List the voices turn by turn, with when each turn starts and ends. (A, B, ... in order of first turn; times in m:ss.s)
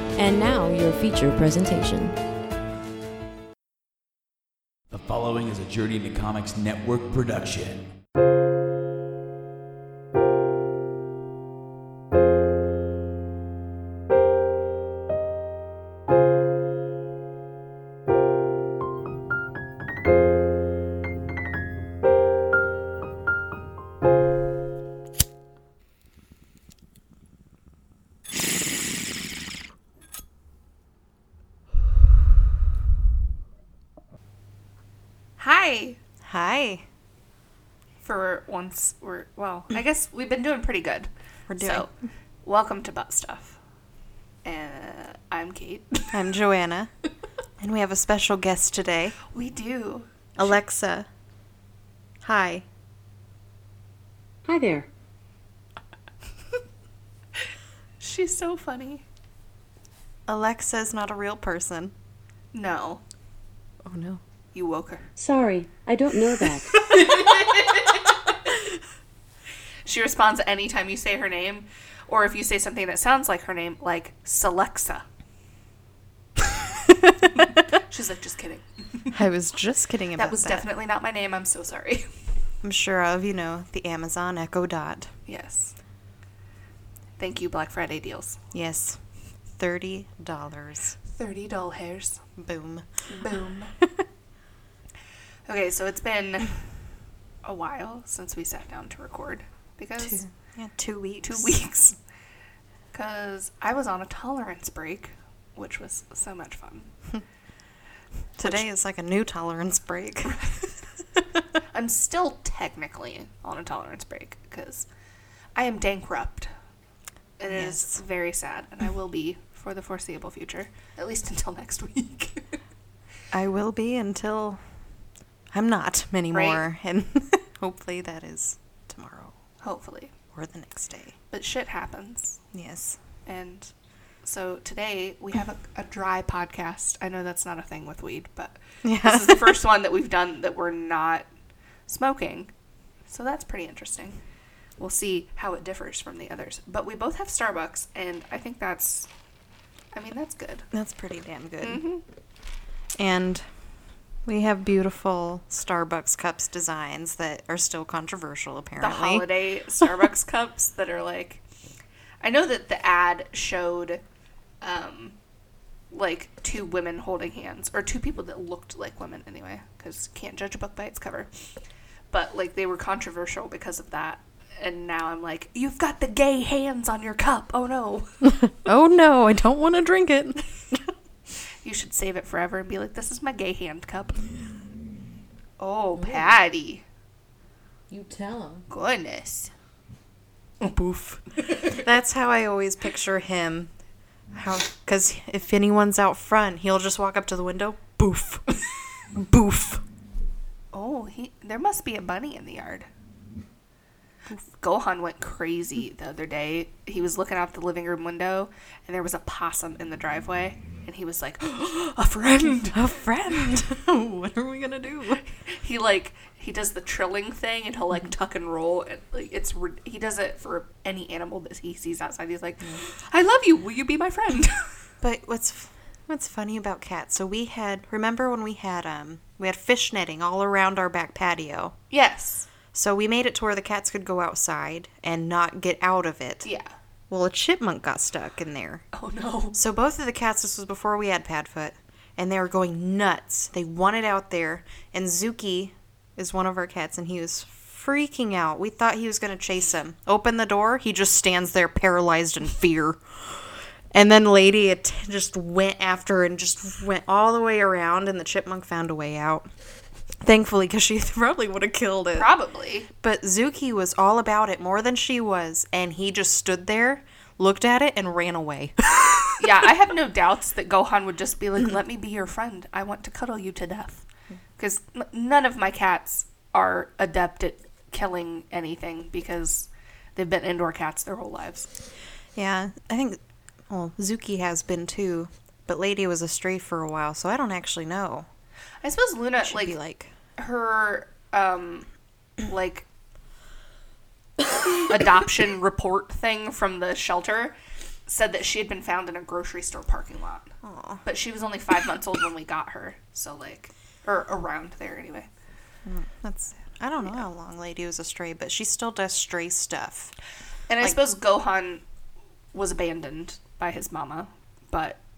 0:00.2-0:02.1 A
0:04.9-0:07.9 B
0:35.4-0:36.0 C
0:36.2-0:36.8 D
0:38.0-0:41.9 C
0:41.5-0:41.9 D
0:42.4-0:43.6 C
0:44.4-0:46.2 C
0:46.1-0:46.9 D
0:47.6-0:49.2 D
0:49.3-0:50.6 C
0:50.4-0:51.1 D
0:52.2-0:52.6 D
0:54.4-0:54.9 E
0:58.0-0:59.0 C
1:00.3-1:01.9 D
1:02.5-1:03.0 C
1:03.8-1:04.2 D
1:04.5-1:05.1 C
1:05.2-1:06.8 E
1:06.7-1:07.9 D
1:07.0-1:08.0 C
1:09.8-1:15.0 C
1:17.7-1:19.1 C
1:19.1-1:20.7 D
1:20.1-1:22.1 C
1:22.6-1:25.1 D
1:25.3-1:25.7 C
1:27.2-1:28.4 C
1:28.5-1:31.0 D
1:31.0-1:32.2 C
1:32.4-1:34.0 D
1:33.1-1:33.7 C
1:35.5-1:36.6 C
1:37.4-1:40.2 C
1:40.0-1:41.7 D
1:41.2-1:42.0 C
1:42.9-1:46.9 C
1:48.4-1:51.4 D
1:51.7-1:54.9 C
1:55.5-1:56.5 C
1:57.4-2:02.6 C
1:57.5-1:58.0 D
2:03.3-2:04.6 D
2:05.5-2:09.3 D
2:06.3-2:06.6 C
2:09.6-2:10.1 C
2:10.3-2:11.2 D
2:11.3-2:12.4 C
2:12.5-2:13.0 D
2:13.2-2:13.7 C
2:14.2-2:21.3 C
2:18.8-2:19.6 D
2:21.9-2:22.5 C
2:23.1-2:24.2 C
2:24.8-2:29.1 C
2:29.9-2:30.7 C
2:30.7-2:31.8 D
2:31.6-2:32.0 C
2:33.0-2:33.5 D
2:34.2-2:39.3 D
2:38.8-2:41.4 C
2:42.2-2:44.0 C
2:44.6-2:45.2 C
2:45.9-2:51.3 C
2:52.1-2:58.2 C
2:58.2-3:00.8 D
3:01.6-3:04.2 C
3:05.6-3:06.8 C
3:06.0-3:06.3 D
3:07.9-3:08.6 D
3:08.7-3:09.5 C
3:10.7-3:13.7 D
3:14.3-3:19.8 D
3:20.7-3:22.9 C
3:24.5-3:32.9 C
3:32.7-3:35.2 D
3:35.4-3:44.7 C
3:45.0-3:51.8 D
3:51.9-3:52.5 C
3:52.7-3:56.5 D
3:56.4-3:56.7 C
3:57.1-3:58.8 D
3:58.9-3:59.6 C
3:59.5-4:19.5 D
4:20.2-4:22.3 D
4:22.1-4:22.9 C
4:23.0-4:29.3 D
4:29.4-4:34.0 C
4:34.6-4:41.7 C
4:42.4-4:48.3 D
4:48.8-4:49.8 C
4:49.4-4:50.1 D
4:50.4-4:51.9 C
4:52.4-4:52.8 C
4:54.8-4:57.5 C
4:58.0-5:00.5 C
5:00.6-5:01.0 D
5:01.0-5:05.3 C
5:05.8-5:10.2 D
5:10.7-5:11.8 C
5:12.5-5:15.0 C